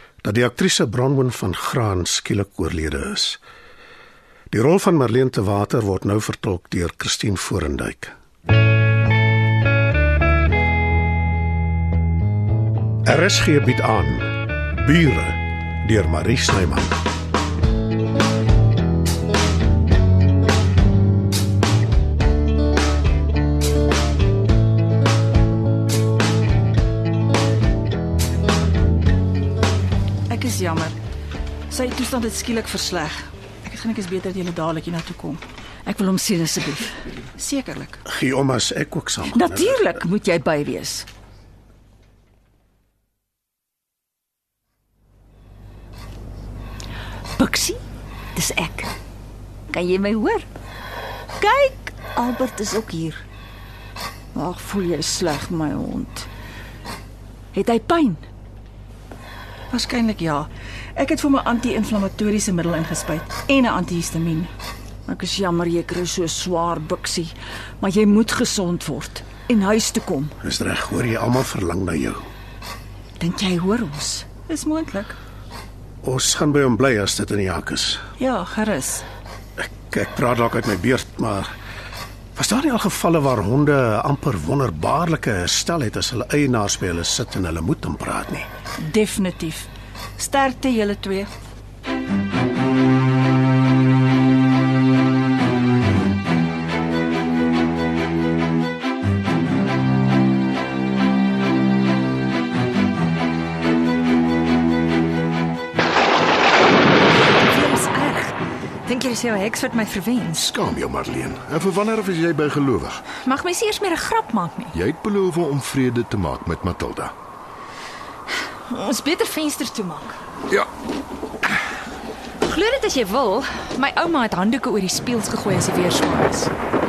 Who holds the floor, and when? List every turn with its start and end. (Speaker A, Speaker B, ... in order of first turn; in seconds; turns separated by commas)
Speaker A: 0.2-3.4, Speaker A: 4.5-8.1, Speaker A: 13.1-17.0, Speaker B: 30.3-31.0, Speaker C: 30.3-30.8, Speaker B: 31.7-35.4, Speaker C: 31.8-33.0, Speaker C: 35.9-37.0, Speaker B: 37.5-38.0, Speaker A: 38.0-39.9, Speaker C: 39.3-41.1, Speaker C: 47.4-47.8, Speaker C: 48.3-48.9, Speaker C: 49.7-50.5, Speaker C: 51.4-53.2, Speaker C: 54.3-56.3, Speaker C: 57.5-58.2, Speaker B: 59.7-64.5, Speaker C: 59.7-60.3, Speaker C: 61.0-64.5, Speaker C: 65.0-70.3, Speaker A: 70.4-72.2, Speaker C: 73.2-75.0, Speaker B: 74.5-75.2, Speaker A: 76.0-78.0, Speaker C: 78.2-78.9, Speaker B: 78.2-79.0, Speaker A: 79.6-81.5, Speaker A: 82.3-88.5, Speaker B: 88.9-89.7, Speaker C: 88.9-89.5, Speaker B: 90.2-91.3, Speaker C: 90.2-91.2, Speaker D: 107.2-110.5, Speaker E: 110.4-113.0, Speaker D: 113.2-114.7, Speaker E: 114.7-117.1, Speaker D: 118.7-120.2, Speaker D: 122.4-126.5